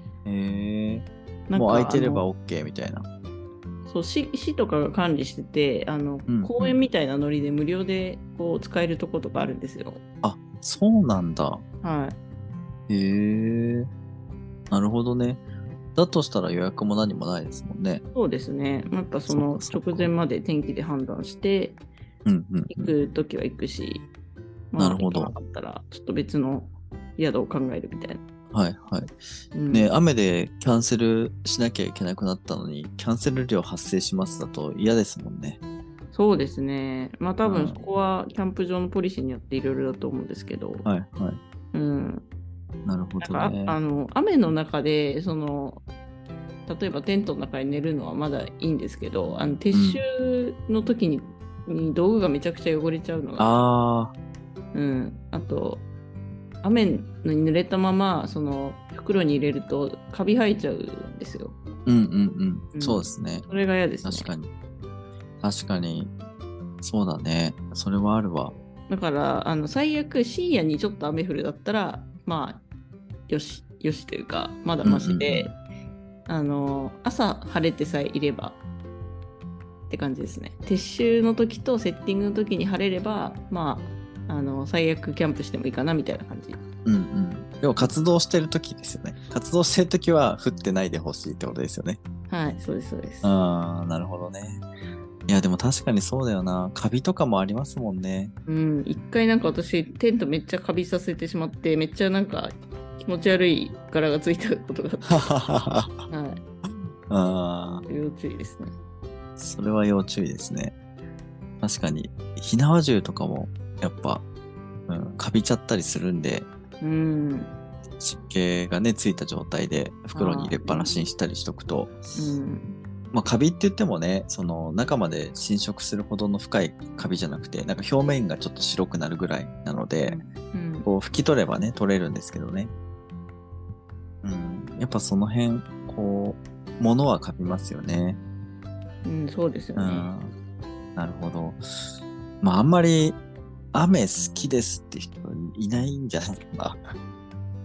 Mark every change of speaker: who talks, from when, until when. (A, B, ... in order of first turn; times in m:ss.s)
0:00.2-0:03.1 A
0:01.5-0:02.3 B
0:03.9-0:10.0 B
0:06.3-0:06.8 A
0:10.2-0:11.6 A
0:11.8-0:12.2 B
0:12.9-0:13.9 A
0:14.7-0:15.4 A
0:15.9-0:18.0 A
0:18.1-0:21.8 B
0:19.3-0:20.1 A
0:22.2-0:22.9 A
0:22.7-0:24.1 B
0:24.7-0:28.2 B
0:24.8-0:25.4 A
0:28.5-0:29.1 A
0:29.5-0:29.9 B
0:29.7-0:35.6 A
0:36.1-0:40.9 B
0:37.4-0:37.8 A
0:40.8-0:41.4 A
0:41.7-0:42.3 B
0:42.8-0:43.8 A
0:43.2-0:45.8 B
0:46.7-0:53.5 B
0:49.7-0:50.0 A
0:53.4-0:54.1 A
0:54.7-0:55.9 B
0:56.6-1:01.6 B
1:01.9-1:03.4 A
1:02.7-1:04.3 B
1:04.0-1:04.5 A
1:05.4-1:06.1 A
1:06.8-1:08.5 A
1:08.9-1:12.6 B
1:13.3-1:15.6 B
1:14.8-1:15.5 A
1:16.3-1:18.6 B
1:19.9-1:26.6 B
1:26.9-1:32.0 A
1:32.3-1:33.4 B
1:33.2-1:34.6 A
1:35.3-1:38.3 A
1:38.5-1:45.3 B
1:45.1-1:45.9 A
1:46.1-1:46.4 B
1:47.1-1:47.8 A
1:47.9-1:48.7 B
1:49.4-1:50.7 A
1:51.6-1:54.2 A
1:54.9-1:56.5 A
1:56.8-1:57.5 B
1:58.0-2:02.0 A
2:00.1-2:00.9 B
2:02.1-2:02.7 B
2:03.1-2:10.2 A
2:10.0-2:10.9 B
2:10.9-2:12.7 A
2:14.2-2:18.2 A
2:19.0-2:20.1 B
2:19.8-2:20.3 A
2:21.0-2:21.6 A
2:22.4-2:23.2 A
2:23.7-2:26.8 A